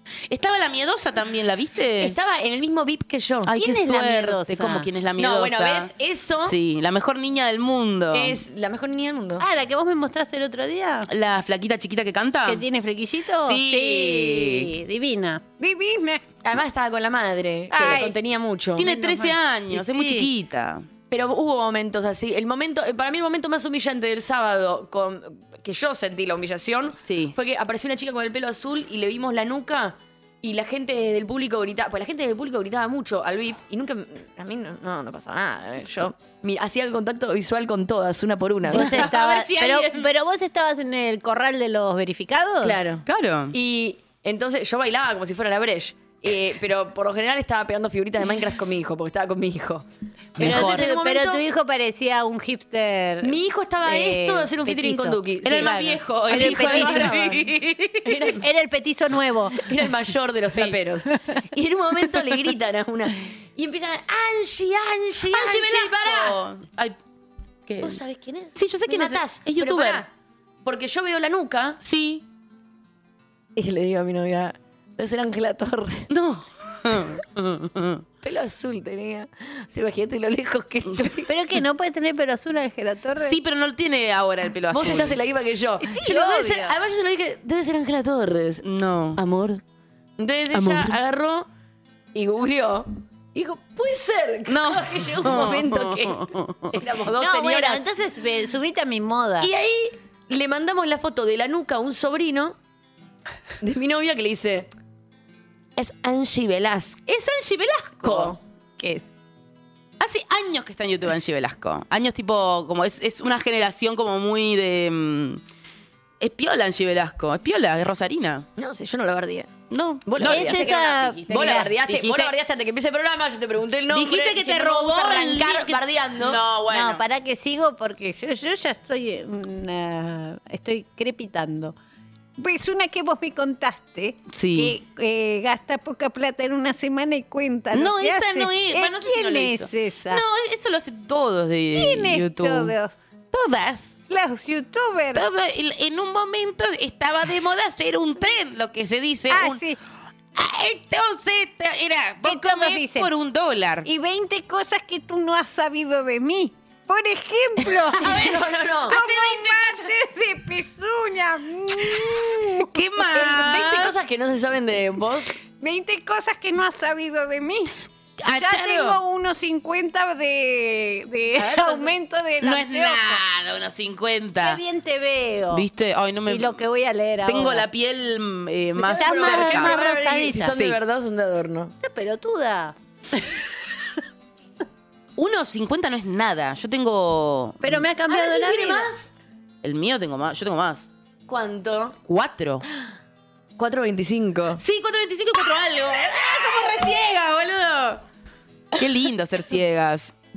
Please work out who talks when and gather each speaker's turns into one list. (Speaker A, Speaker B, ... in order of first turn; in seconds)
Speaker A: 0.3-2.1, 3.5-5.9, 6.4-8.4, 11.1-12.6, 13.4-14.7, 18.8-20.9, 27.1-27.3, 38.7-40.1, 43.0-43.5, 50.4-50.9, 55.4-58.2, 65.3-67.0, 67.7-68.0, 68.5-70.0, 71.8-72.2, 76.1-78.0, 83.2-85.2, 88.6-89.2, 90.5-91.0, 94.5-96.8, 107.1-108.4, 110.0-115.4, 116.2-118.5, 119.7-122.3, 123.9-127.0, 134.3-134.8, 137.7-142.7, 143.3-144.0, 145.1-149.6, 150.3-153.9, 157.9-159.9, 161.9-163.9, 168.2-169.0, 172.4-174.6, 175.5-176.6, 177.2-179.8, 185.2-187.8, 189.6-190.8, 192.1-192.6, 194.6-198.0, 198.8-200.1
Speaker B: 2.0-3.5, 5.2-6.5, 8.1-9.4, 16.4-18.9, 21.1-39.0, 42.6-49.8, 50.4-51.4, 53.2-57.4, 58.0-58.4, 59.5-66.4, 67.8-70.1, 70.6-71.8, 73.5-76.1, 78.2-81.3, 84.7-88.6, 89.2-89.6, 90.2-91.5, 92.1-97.8, 99.4-102.5, 103.6-104.7, 105.8-107.0, 108.0-108.4, 118.6-119.5, 120.0-126.4, 158.0-158.9, 163.1-165.4, 171.4-171.9, 178.8-181.7, 188.1-189.1, 191.3-192.0, 193.6-194.6
Speaker C: 3.5-4.9, 9.4-11.1, 12.4-16.2, 17.7-18.1, 18.9-20.3, 38.7-42.8, 50.4-57.2, 58.4-59.6, 81.3-83.4, 85.8-86.7, 97.2-99.5, 108.8-109.1, 120.2-121.7, 126.7-131.7, 132.4-140.2, 141.8-142.9, 144.1-145.2, 149.3-149.8, 152.2-153.1, 153.8-158.3, 158.9-162.7, 165.5-167.7, 168.3-173.2, 174.4-175.7, 176.2-177.7, 178.9-180.6, 181.8-182.8, 187.6-188.9